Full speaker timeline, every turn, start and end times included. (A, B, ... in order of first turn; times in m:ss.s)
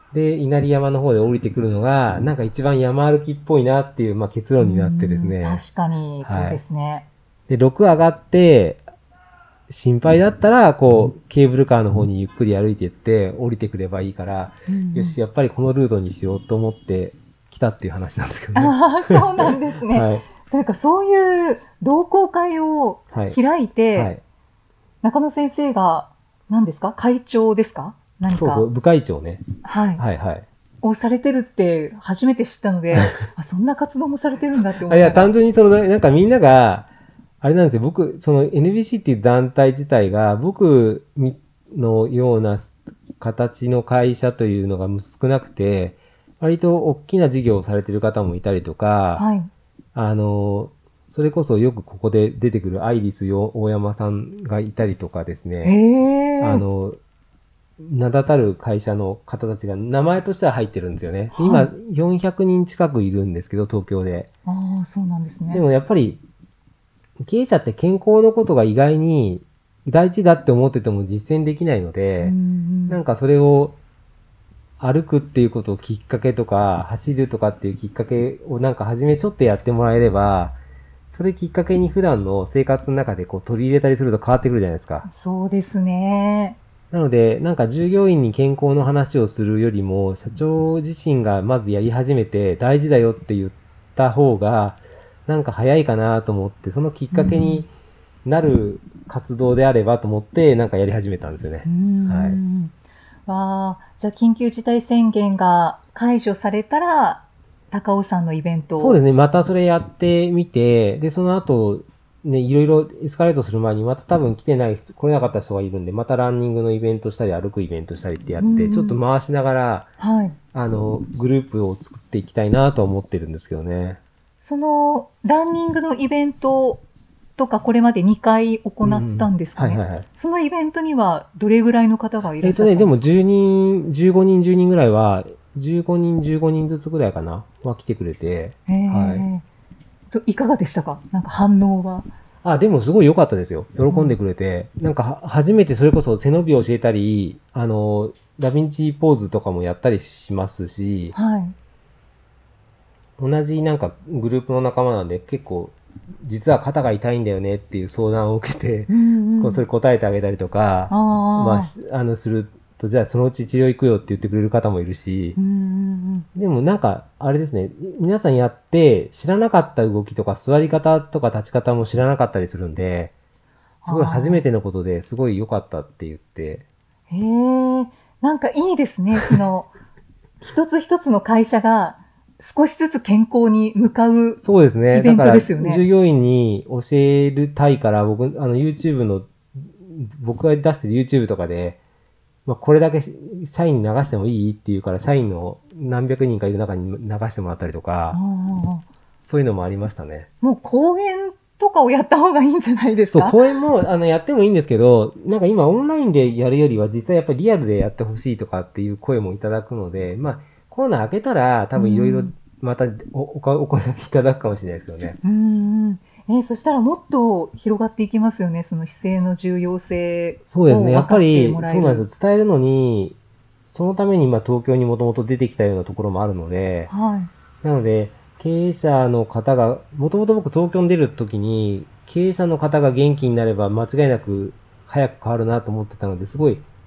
0:00.1-0:05.6 A
0:04.6-0:07.1 B
0:06.2-0:06.6 A
0:07.5-0:08.8 A
0:09.7-0:20.2 A
0:14.7-0:15.2 B
0:18.6-0:24.1 B
0:23.1-0:23.4 A
0:24.0-0:24.2 A
0:25.0-0:28.7 B
0:28.3-0:30.4 A
0:29.6-0:30.0 B
0:30.8-0:35.3 B
0:34.8-0:36.9 A
0:37.4-0:49.3 A
0:49.2-0:49.5 B
0:50.0-0:55.8 A
0:55.6-0:56.6 B
0:56.4-0:57.0 A
0:57.8-1:04.3 A
1:01.3-1:01.7 B
1:04.5-1:05.6 B
1:05.5-1:06.2 A
1:07.2-1:12.4 A
1:12.2-1:13.0 B
1:12.9-1:13.8 A
1:14.8-1:20.6 A
1:21.1-1:25.1 A
1:25.0-1:26.6 B
1:26.9-1:37.7 A
1:37.1-1:37.7 B
1:38.2-1:42.4 A
1:41.6-1:42.7 B
1:43.3-1:49.0 B
1:48.8-1:59.9 A
1:58.4-1:59.0 B
2:00.0-2:00.4 B
2:00.5-2:04.0 A
2:04.4-2:06.8 B
2:07.4-2:13.1 B
2:08.8-2:10.1 A
2:12.4-2:19.3 A
2:18.7-2:19.4 B
2:20.1-2:22.1 B
2:22.4-2:31.2 A
2:23.9-2:24.2 B
2:31.1-2:31.6 B
2:33.2-2:45.4 A
2:38.9-2:39.7 B
2:40.9-2:41.7 B
2:45.4-2:46.3 B
2:46.4-2:53.1 A
2:53.8-2:54.4 B
2:53.9-2:56.6 A
2:57.1-2:59.7 B
3:00.4-3:05.9 B
3:04.4-3:11.8 A
3:12.5-3:18.2 A
3:18.1-3:18.9 B
3:19.2-3:20.3 A
3:20.4-3:23.4 B
3:23.1-3:35.2 A
3:31.8-3:32.3 B
3:35.2-3:42.1 B
3:40.5-3:43.2 A
3:43.7-3:46.9 A
3:46.9-3:47.3 B
3:47.6-3:56.6 A